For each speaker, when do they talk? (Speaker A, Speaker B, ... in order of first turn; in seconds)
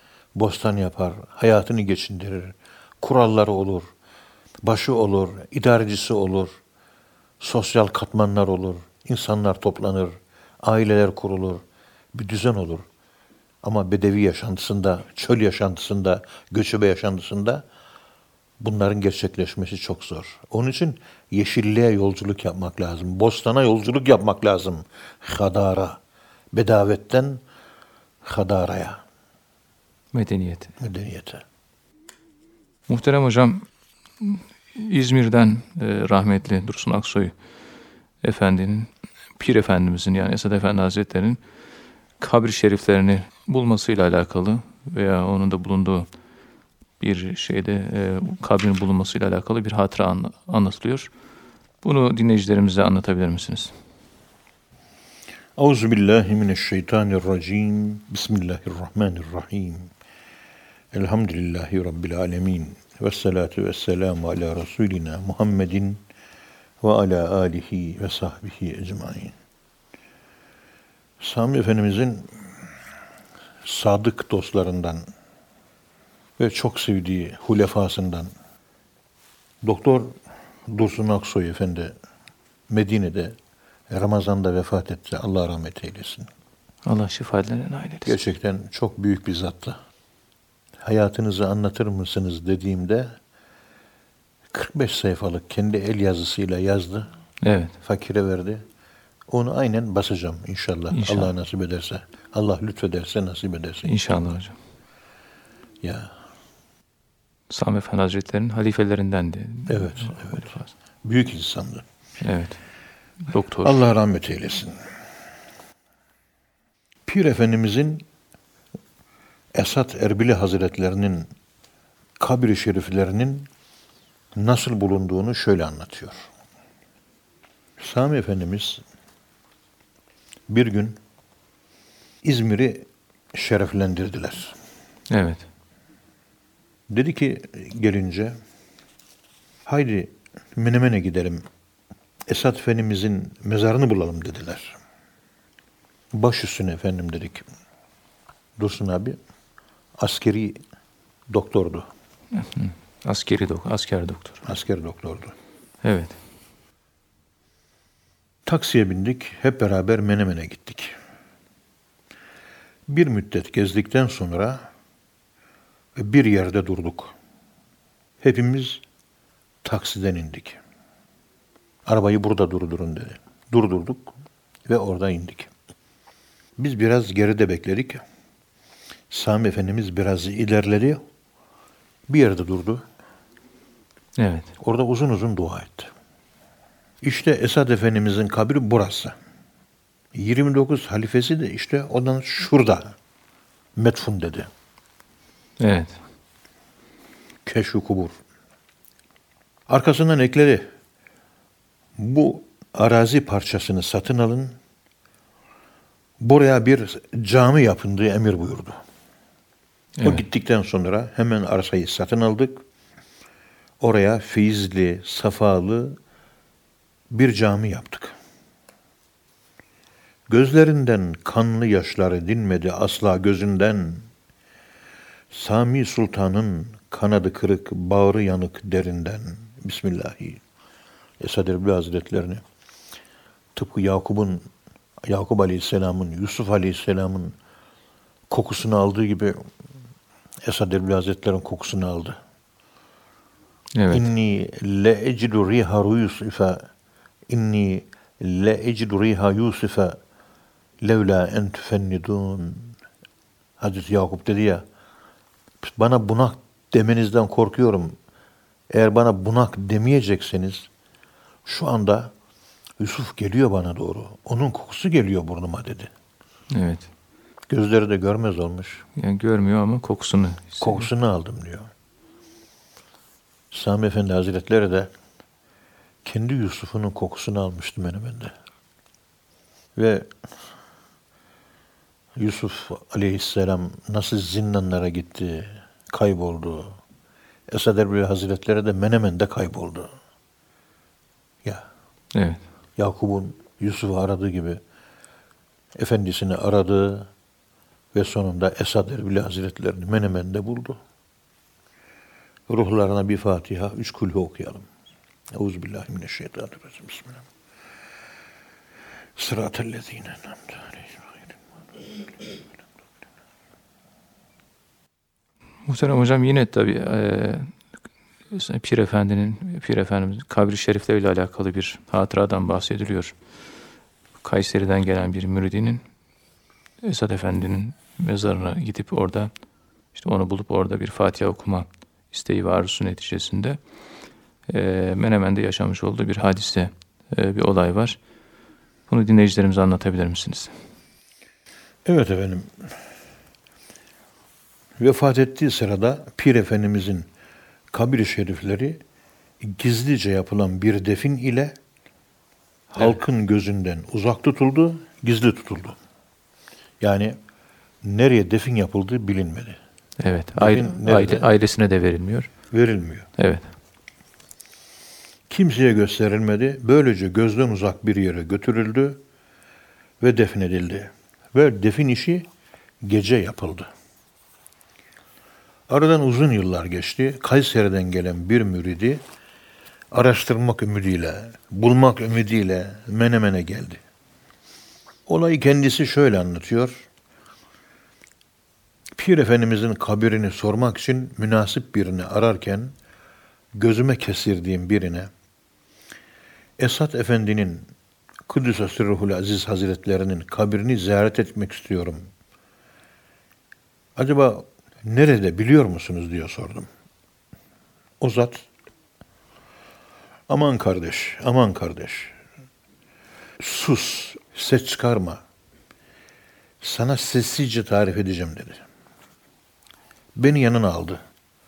Speaker A: 0.3-3.9, 4.6-6.6, 7.4-11.6, 12.1-12.9, 13.6-17.6, 18.6-26.0, 26.5-27.4, 28.2-29.0, 30.8-31.4, 55.6-59.9, 60.9-66.0, 66.8-69.3, 71.2-72.5, 73.6-75.1, 76.4-78.3, 79.6-80.2, 80.7-81.9, 82.7-83.4, 83.9-86.3, 88.0-89.8, 90.8-93.2, 94.5-97.1, 97.8-98.6, 99.3-104.0, 105.8-106.1, 109.7-111.9, 113.6-114.8, 117.1-118.1, 119.5-121.3, 122.2-123.5, 124.4-126.3, 127.8-128.8, 130.5-131.0, 132.2-134.6, 136.9-138.4, 139.7-141.4, 142.3-144.8, 146.1-147.4, 148.6-149.2, 150.0-150.6, 151.3-151.9, 154.4-155.3, 158.5-160.9, 162.9-164.7, 166.0-167.1, 168.2-168.8, 169.6-170.6, 171.9-174.1, 174.7-175.5, 176.6-178.0, 179.1-181.0, 182.1-182.8, 184.6-185.9, 187.0-189.2, 190.1-192.9, 193.8-194.5, 197.4-198.2, 199.7-200.7, 202.0-204.6, 206.2-208.8, 210.0-212.6, 213.8-216.0, 217.1-218.2, 220.3-224.1, 225.3-230.4, 231.2-232.4, 233.6-234.5, 235.1-237.4, 238.3-239.5, 240.4-242.2, 243.9-246.7, 247.3-250.0, 250.8-252.8, 253.6-254.6, 255.6-258.0, 258.7-260.7, 261.4-262.1, 262.8-265.9, 267.5-268.9, 270.6-271.7, 273.5-274.9, 276.1-278.4, 279.8-280.1, 282.2-286.8, 287.5-289.9, 292.8-294.6, 295.8-297.1, 297.9-300.8, 302.5-304.7, 305.3-307.2, 309.2-310.9, 341.9-342.6, 344.8-347.1, 347.7-348.8, 349.4-351.6, 352.7-355.8, 356.8-357.2, 357.8-359.6, 360.4-361.3, 362.5-363.1, 365.3-369.0, 370.0-372.3, 372.8-373.7, 375.7-379.0, 379.9-383.8, 385.1-386.9, 389.0-392.7, 393.5-395.1, 396.6-397.7, 398.3-402.1, 404.0-406.7, 408.0-408.5, 410.3-412.1, 413.4-415.2, 416.6-418.6, 420.2-421.0
Speaker B: 30.1-30.7, 32.9-33.7, 34.2-37.4, 38.2-41.4, 42.2-46.1, 47.0-51.1, 51.8-53.8, 86.8-88.2, 97.4-97.7, 100.9-101.3, 103.8-104.6, 107.5-110.7, 112.2-112.6, 113.2-113.8, 135.1-135.5, 152.3-154.4, 155.8-156.2, 184.2-184.5, 195.6-196.0, 210.0-210.2, 243.8-244.1, 266.5-266.9, 269.0-270.9, 292.1-292.4, 315.7-317.5, 318.3-323.2, 324.2-325.8, 326.8-329.3, 329.9-333.6, 334.5-338.0, 338.9-340.5, 360.0-362.3, 363.2-363.5